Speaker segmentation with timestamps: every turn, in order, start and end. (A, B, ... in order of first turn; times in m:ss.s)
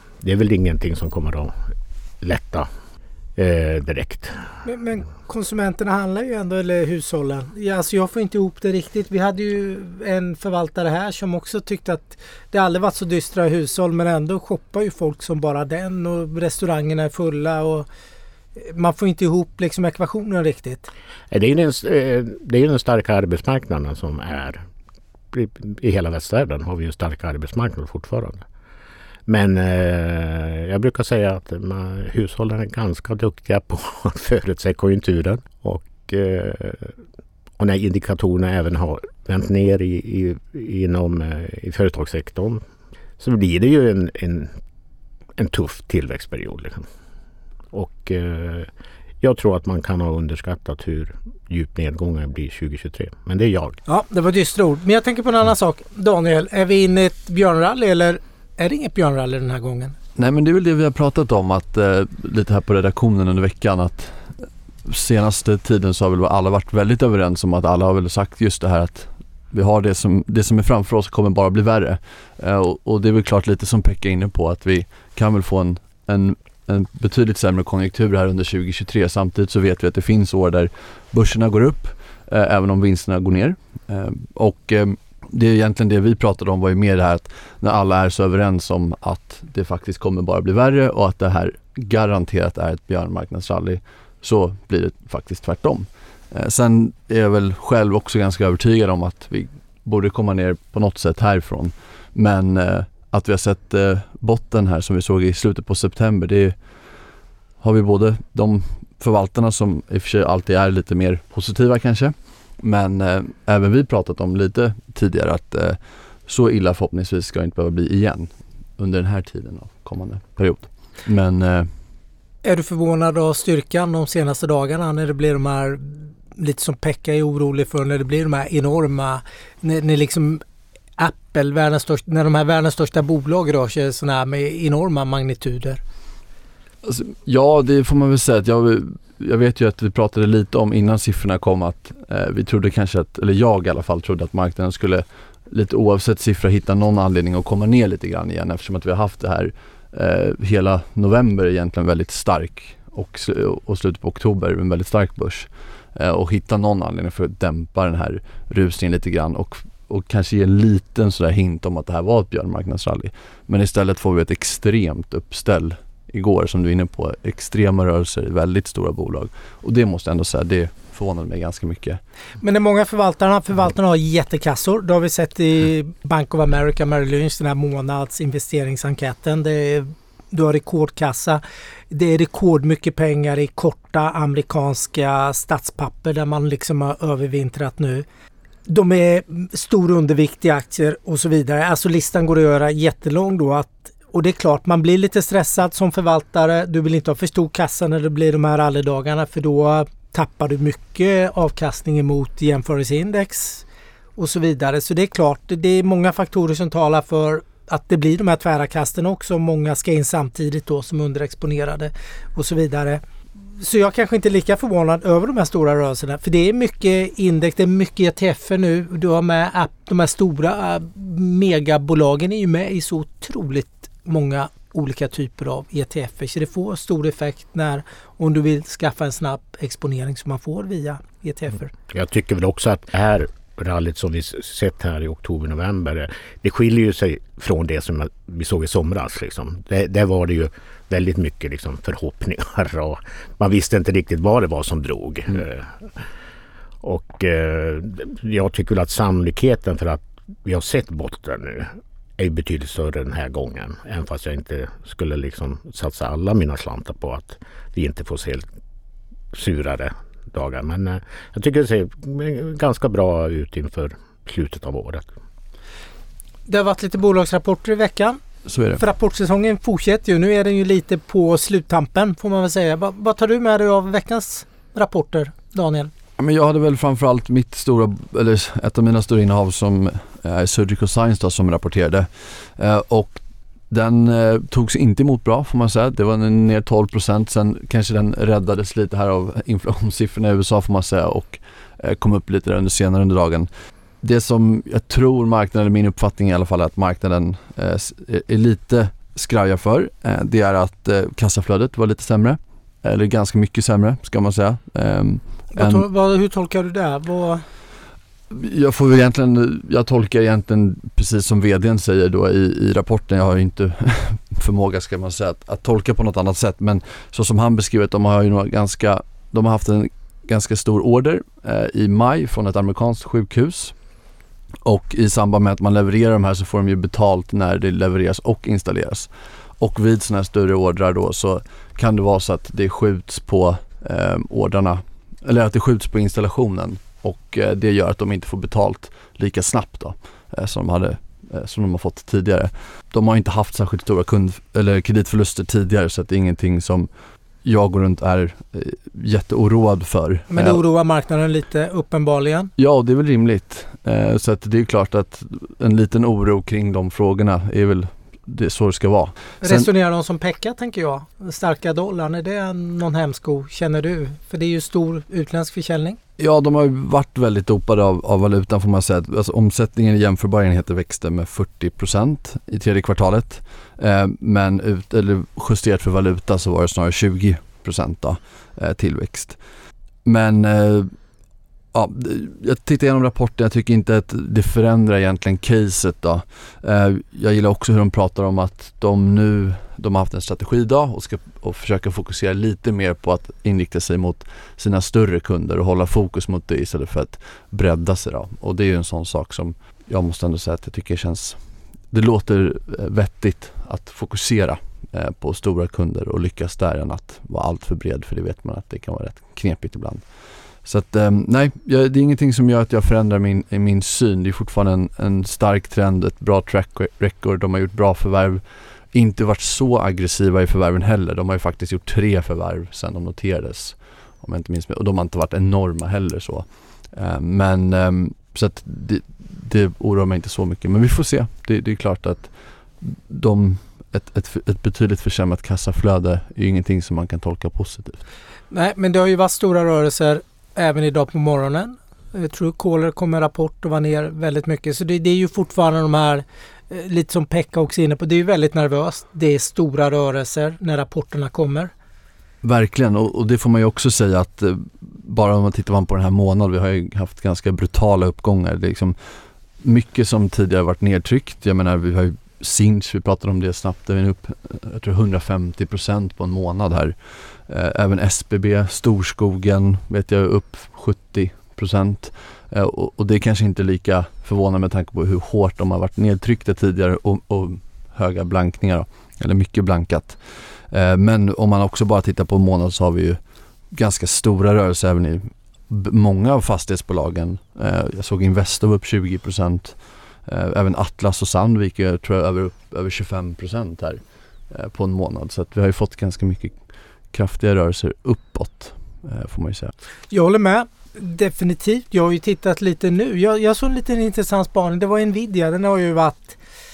0:00.2-0:01.5 A
0:02.2-0:02.7 A
0:03.4-0:04.4 A
0:04.6-0:17.9 B
0:18.6-0:20.9 B
0:21.3-0:24.6 A
0:25.3-0:28.4 A
0:29.3-0:36.9 A
0:37.6-0:42.6 A
0:43.2-0:44.6 A
0:45.4-0:46.9 A
0:47.7-0:48.7 A
0:49.2-0:53.8 A
0:53.9-1:00.0 B
1:00.2-1:46.6 C
1:47.6-2:01.7 C
2:02.4-2:10.4 B
2:11.0-2:15.8 B
2:16.8-2:52.0 C
2:52.4-3:08.0 B
3:08.7-3:23.6 B
3:24.2-3:51.7 B
3:51.9-4:05.9 A
4:06.8-4:18.5 A
4:19.3-4:25.0 A
4:26.5-4:28.2 B
4:28.5-4:28.8 C
4:28.8-4:35.9 B
4:36.2-4:53.5 C
4:54.0-5:05.9 C
5:05.5-5:07.4 B
5:08.3-5:23.8 C
5:24.6-5:46.9 C
5:47.4-5:50.6 C
5:50.3-5:52.5 B
5:52.6-5:59.7 C
5:59.4-6:06.0 B
6:06.2-6:19.4 C
6:20.0-6:20.9 C
6:21.7-6:41.4 C
6:41.9-6:50.1 C
6:50.6-7:18.0 C
7:18.5-7:31.7 B
7:32.4-7:39.0 C
7:39.6-8:03.2 C
8:03.7-8:16.6 C
8:17.1-8:19.7 C
8:20.1-8:26.4 B